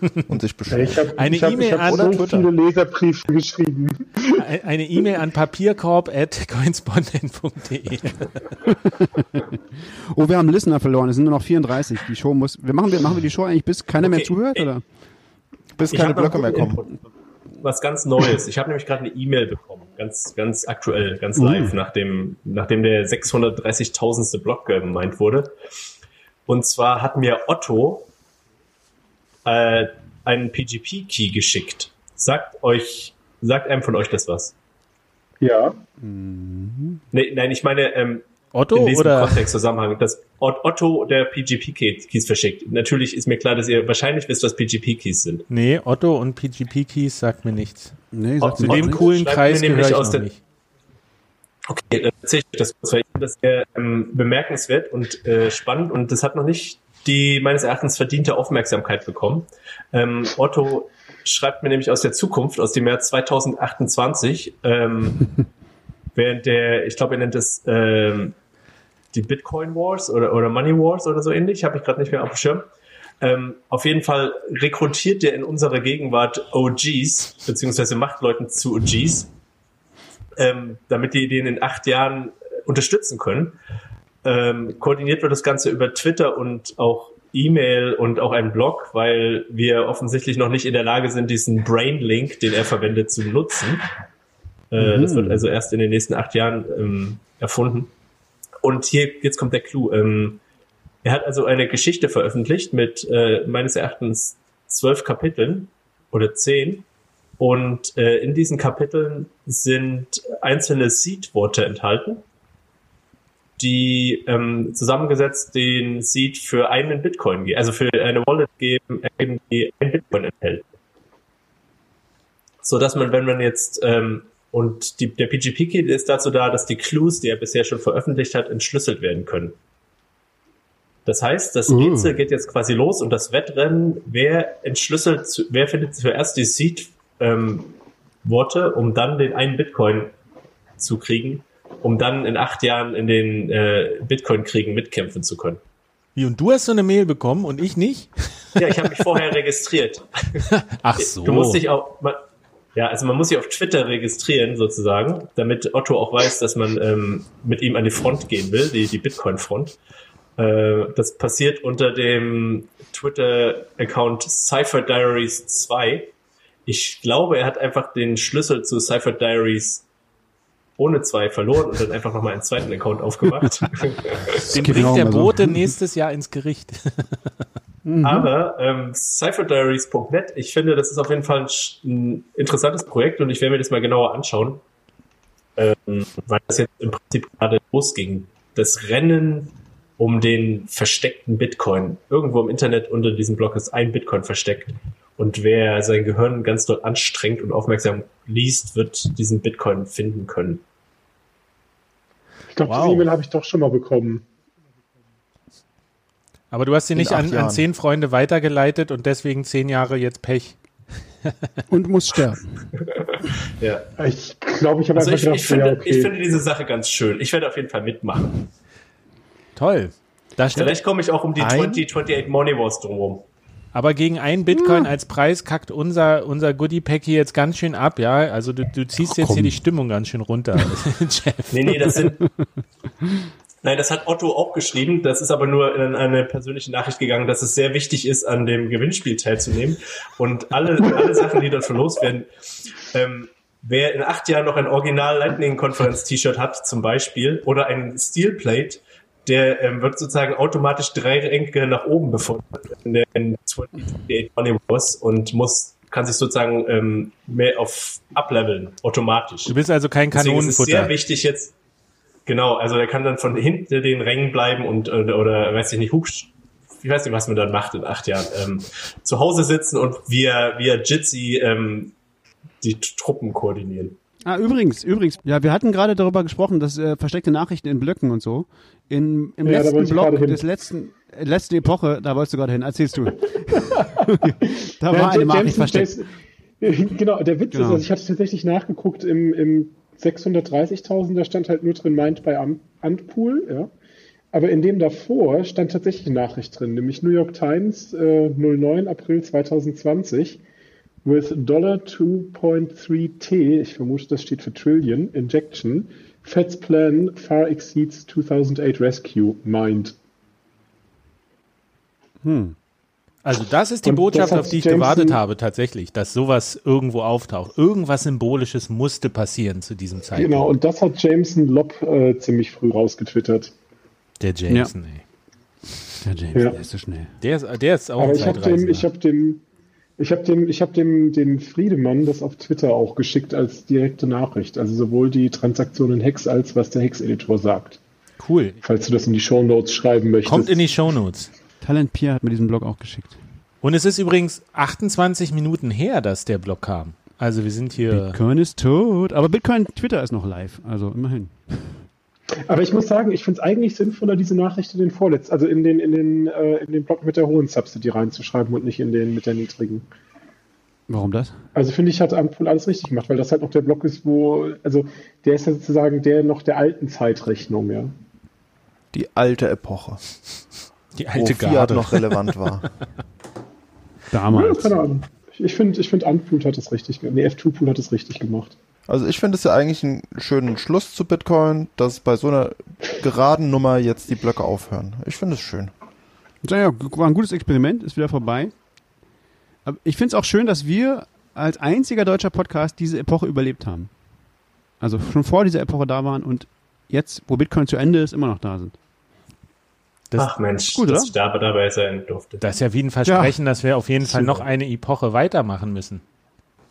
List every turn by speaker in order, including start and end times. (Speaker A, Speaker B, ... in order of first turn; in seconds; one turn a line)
Speaker A: 0.3-2.5
Speaker B: 0.7-4.4
Speaker C: 1.2-2.3
Speaker C: 4.3-8.5
Speaker D: 8.7-14.8
Speaker E: 14.0-14.7
Speaker A: 15.8-16.8
Speaker E: 15.9-17.0
Speaker E: 17.6-25.6
Speaker D: 21.4-21.8
Speaker E: 26.5-28.1
Speaker E: 29.4-34.5
Speaker B: 35.4-35.8
Speaker D: 36.0-37.0
Speaker E: 37.1-45.5
Speaker C: 38.5-39.5
Speaker C: 45.5-48.0
Speaker D: 48.1-49.0
Speaker E: 48.4-50.3
Speaker C: 48.6-50.4
Speaker E: 51.7-65.3
Speaker E: 66.2-68.4
Speaker E: 69.1-72.7
Speaker E: 73.2-79.3
Speaker E: 80.4-83.6
Speaker E: 84.2-93.9
Speaker E: 94.7-97.9
Speaker D: 94.8-95.5
Speaker E: 98.6-100.4
Speaker E: 101.0-106.9
Speaker E: 107.4-112.2
Speaker E: 113.6-120.7
Speaker E: 122.6-129.6
Speaker E: 131.1-137.7
Speaker D: 131.7-132.2
Speaker E: 138.2-140.1
Speaker E: 140.8-145.6
Speaker C: 146.2-149.0
Speaker E: 148.6-150.5
Speaker C: 150.5-151.6
Speaker E: 151.0-152.2
Speaker E: 152.8-159.8
Speaker E: 160.4-166.1
Speaker E: 166.7-169.8
Speaker E: 170.8-174.4
Speaker D: 174.3-175.7
Speaker C: 174.5-177.3
Speaker D: 177.8-178.3
Speaker E: 178.0-184.6
Speaker E: 185.6-200.6
Speaker B: 202.5-204.2
Speaker C: 202.7-203.1
Speaker C: 206.5-210.6
Speaker A: 206.9-207.7
Speaker D: 211.7-212.7
Speaker E: 212.9-213.9
Speaker B: 214.0-216.2
Speaker E: 214.9-218.5
Speaker C: 219.6-220.8
Speaker E: 220.6-223.3
Speaker A: 221.4-221.8
Speaker C: 223.7-232.0
Speaker D: 224.5-224.9
Speaker D: 229.1-229.6
Speaker E: 231.5-232.2
Speaker E: 233.6-259.5
Speaker C: 259.5-260.9
Speaker E: 260.1-261.5
Speaker E: 262.3-272.0
Speaker E: 272.6-274.0
Speaker D: 274.3-285.9
Speaker B: 279.4-280.4
Speaker B: 283.6-293.7
Speaker D: 287.5-287.9
Speaker B: 294.3-300.4
Speaker B: 301.0-310.0
Speaker D: 312.2-312.6
Speaker C: 313.2-320.5
Speaker B: 313.8-315.2
Speaker B: 320.1-323.5
Speaker C: 324.2-325.0
Speaker D: 326.0-327.1
Speaker C: 327.2-328.9
Speaker B: 328.0-329.4
Speaker B: 330.0-337.8
Speaker C: 338.2-338.6
Speaker B: 338.6-340.7
Speaker C: 340.2-341.3
Speaker D: 341.6-343.2
Speaker C: 343.6-348.2
Speaker D: 347.9-351.8
Speaker B: 352.5-359.9
Speaker D: 360.9-361.4
Speaker B: 361.6-367.9
Speaker A: 368.9-370.0
Speaker C: 371.0-372.3
Speaker A: 371.1-372.7
Speaker D: 374.1-374.8
Speaker B: 374.3-378.6
Speaker A: 378.9-385.7
Speaker D: 386.4-388.5
Speaker D: 389.6-393.9
Speaker D: 394.8-398.8
Speaker E: 400.2-402.4
Speaker D: 400.8-401.1
Speaker C: 402.4-406.0
Speaker D: 403.1-403.4
Speaker D: 404.0-404.5